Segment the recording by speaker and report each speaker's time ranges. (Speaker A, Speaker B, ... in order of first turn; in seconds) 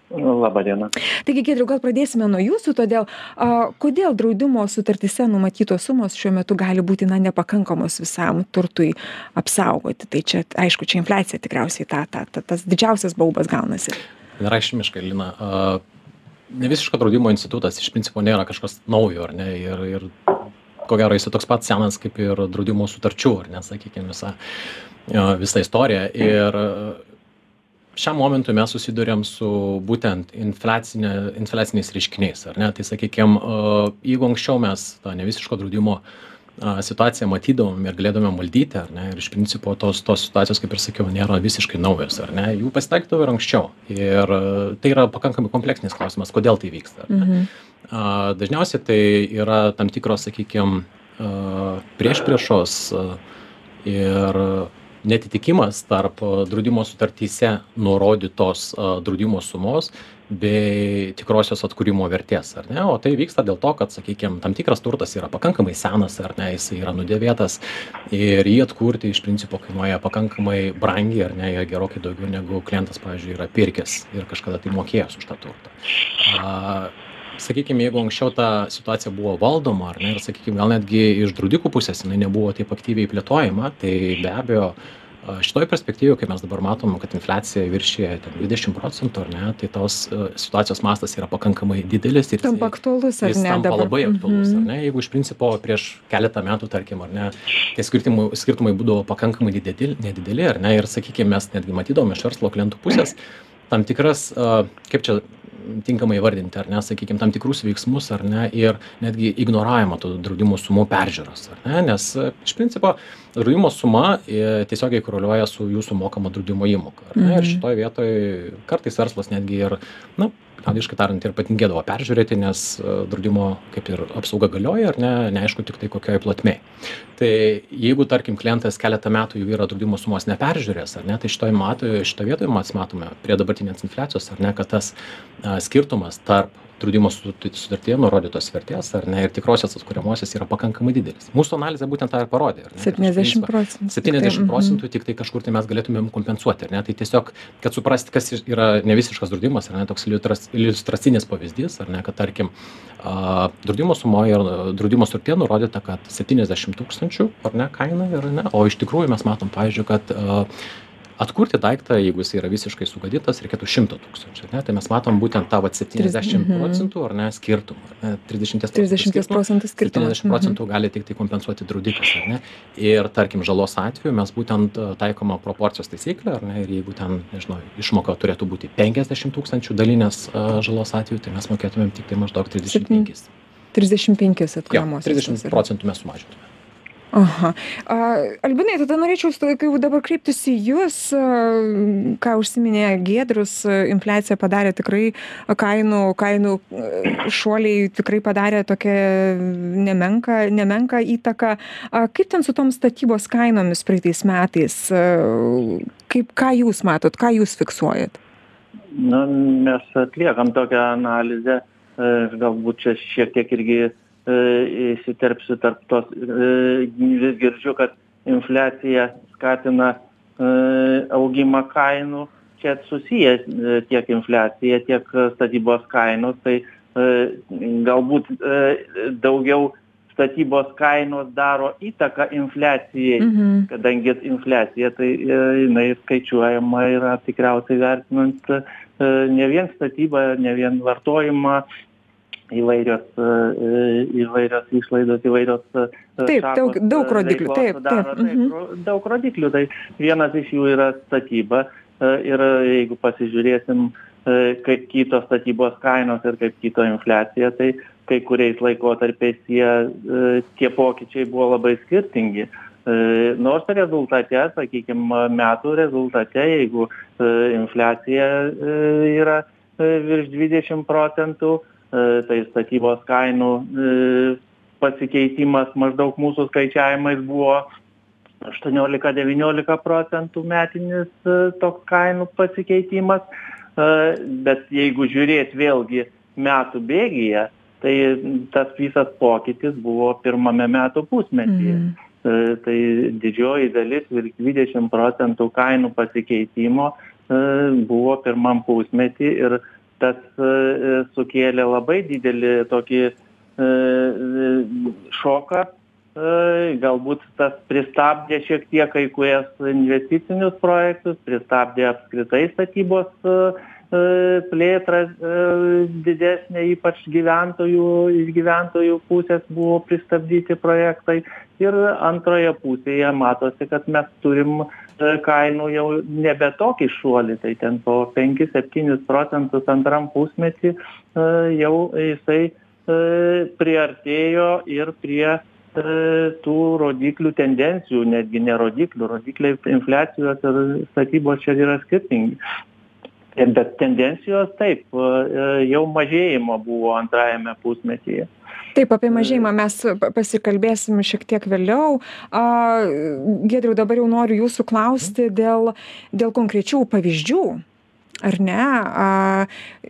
Speaker A: 0.1-0.9, 208.9-241.6, 242.5-277.7, 278.4-283.2, 283.8-342.4, 343.3-348.3
Speaker B: 1.2-14.0, 47.1-47.5, 92.4-94.7, 117.2-117.6, 142.8-144.8, 165.9-166.9, 168.7-170.6, 182.7-183.1, 183.7-185.6, 187.1-208.2, 233.2-233.7, 246.2-248.5, 291.6-291.9, 348.7-357.6, 358.2-359.5
Speaker C: 14.4-15.8, 16.5-20.1, 20.8-24.4, 25.1-27.0, 27.9-36.0, 36.6-47.3, 47.9-53.2, 53.8-103.2, 103.7-126.6, 127.2-160.5, 161.2-183.3, 184.7-186.5